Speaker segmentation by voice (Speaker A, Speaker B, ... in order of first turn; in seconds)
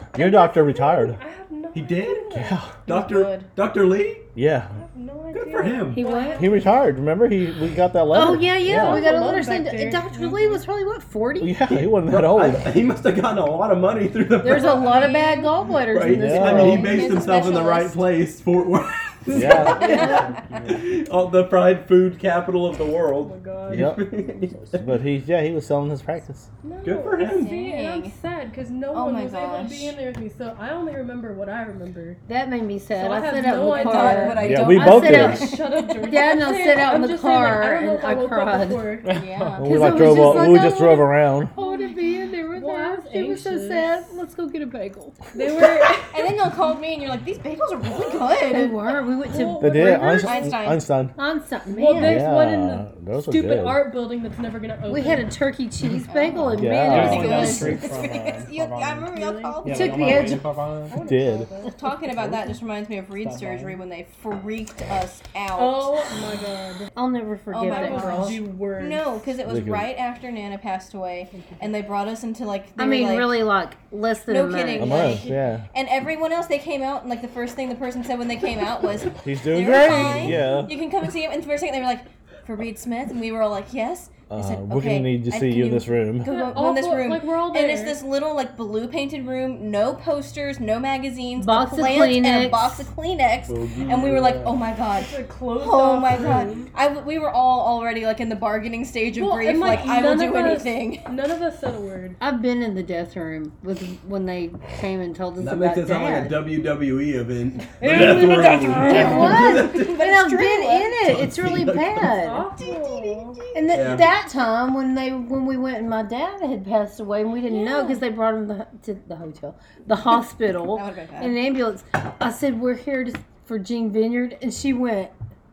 Speaker A: 0.1-1.2, 2.3-2.7, 4.3-4.7, 6.3-9.1, 11.4-12.7, 16.1-16.9, 19.3-20.0, 23.7-24.1, 24.7-26.5, 34.4-35.5, 39.6-41.5, 49.6-51.1, 51.9-53.9, 56.5-57.7, 61.0-61.5, 69.4-69.9, 74.8-75.6, 79.2-80.7, 84.3-86.3
Speaker B: 0.1-2.7, 4.7-6.8, 8.6-10.6, 23.2-24.0, 26.6-32.2, 32.9-39.2, 41.5-41.9, 42.5-44.0, 45.3-46.3, 49.2-50.4, 51.7-55.3, 59.1-60.1, 60.9-62.0, 65.5-66.9, 67.6-69.1, 71.3-71.7, 74.9-75.5, 86.2-88.0, 94.9-96.7, 99.1-102.2, 107.8-109.3, 112.1-113.4
Speaker C: 1.7-4.3, 5.3-6.0, 11.7-15.0, 15.9-24.9, 26.8-27.5, 93.5-94.5, 105.4-110.1, 111.1-112.1, 113.7-114.0
Speaker D: 2.9-3.5, 14.7-15.5, 16.6-17.9, 19.7-20.3, 27.2-28.1, 28.9-29.9, 33.6-35.7, 39.1-39.7, 46.1-48.8, 50.2-50.9, 56.1-60.4, 61.7-66.0, 67.5-73.4, 74.3-101.0, 108.9-111.0, 112.5-114.0, 117.5-118.0, 120.7-121.4
Speaker E: 5.9-6.5, 8.1-11.6, 14.4-17.9, 19.9-20.2, 32.3-39.0, 39.6-45.2, 48.5-50.5, 51.2-52.4, 54.9-57.9, 59.6-60.5, 66.9-68.4, 72.8-75.2, 91.4-92.9, 102.2-106.4, 108.8-112.5, 113.5-125.1
Speaker F: 39.0-39.9, 56.9-61.0, 62.2-62.5, 63.2-63.8, 107.8-109.3